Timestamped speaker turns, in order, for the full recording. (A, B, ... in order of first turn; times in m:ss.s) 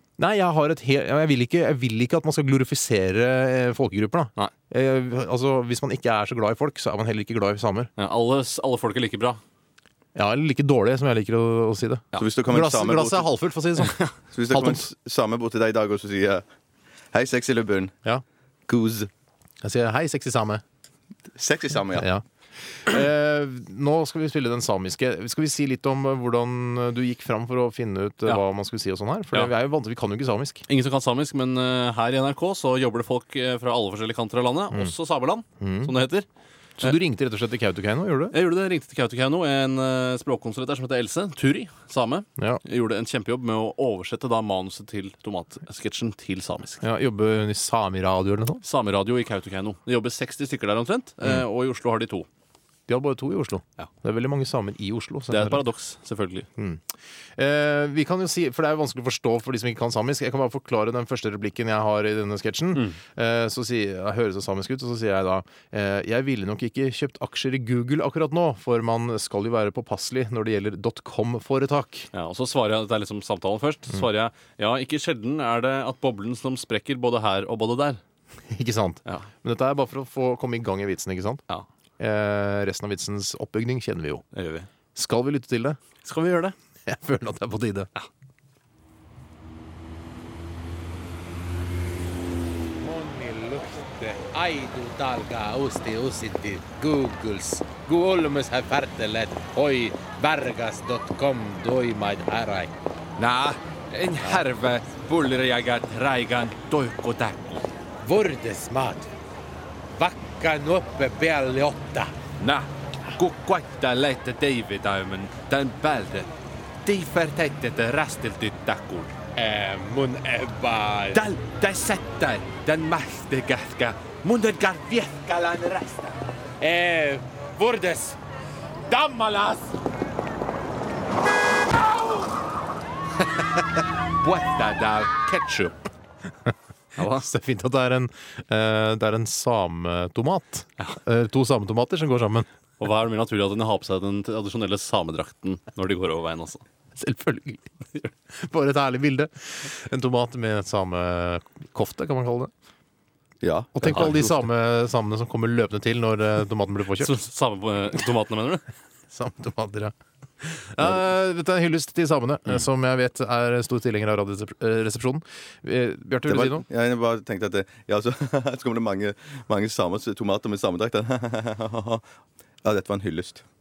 0:00.2-0:07.9 A
0:08.0-0:09.4 B
0:10.1-0:14.8 A
0:12.2-0:13.3 C
0:14.3-0:16.4 C
0:17.1-0:17.9 C
0:18.7-0:19.1 C
0:19.6-0:20.6 A
0:21.4-0:22.1 C
0:22.0-0:22.2 A
0:22.8-0:30.6 A
0:30.7-0:36.2 B
0:35.6-0:35.9 A
0:36.8-0:38.3 A
0:38.3-0:46.8 B
0:46.8-0:48.6 A
0:48.6-0:52.3 B
0:52.9-0:55.6 A
0:55.3-0:56.5 B
0:56.6-0:56.8 A
0:57.4-1:12.1 A
1:12.1-1:18.0 B
1:18.5-1:21.4 A
1:22.0-1:24.2 A
1:24.3-1:24.7 B
1:24.9-1:25.8 A
1:26.0-1:26.5 B
1:26.8-1:27.9 A
1:32.8-1:42.7 D
1:43.2-1:47.6 E
1:44.2-1:44.5 D
1:44.6-1:47.4 B
1:48.0-1:49.1 D
1:49.9-1:52.1 D
1:52.4-1:56.3 E
1:53.4-1:54.9 B
1:56.8-1:59.1 E
1:59.4-2:01.3 D
2:01.1-2:05.8 E
2:06.6-2:08.2 D
2:08.9-2:09.7 D
2:14.7-2:15.7 D
2:17.0-2:17.2 B
2:17.0-2:22.5 A
2:22.8-2:26.6 B
2:27.0-2:27.7 A
2:28.4-2:32.5 A
2:33.4-2:34.4 C
2:33.7-2:37.2 A
2:37.0-2:38.6 B
2:39.1-2:46.6 A
2:46.2-2:52.0 C
2:52.6-2:53.4 C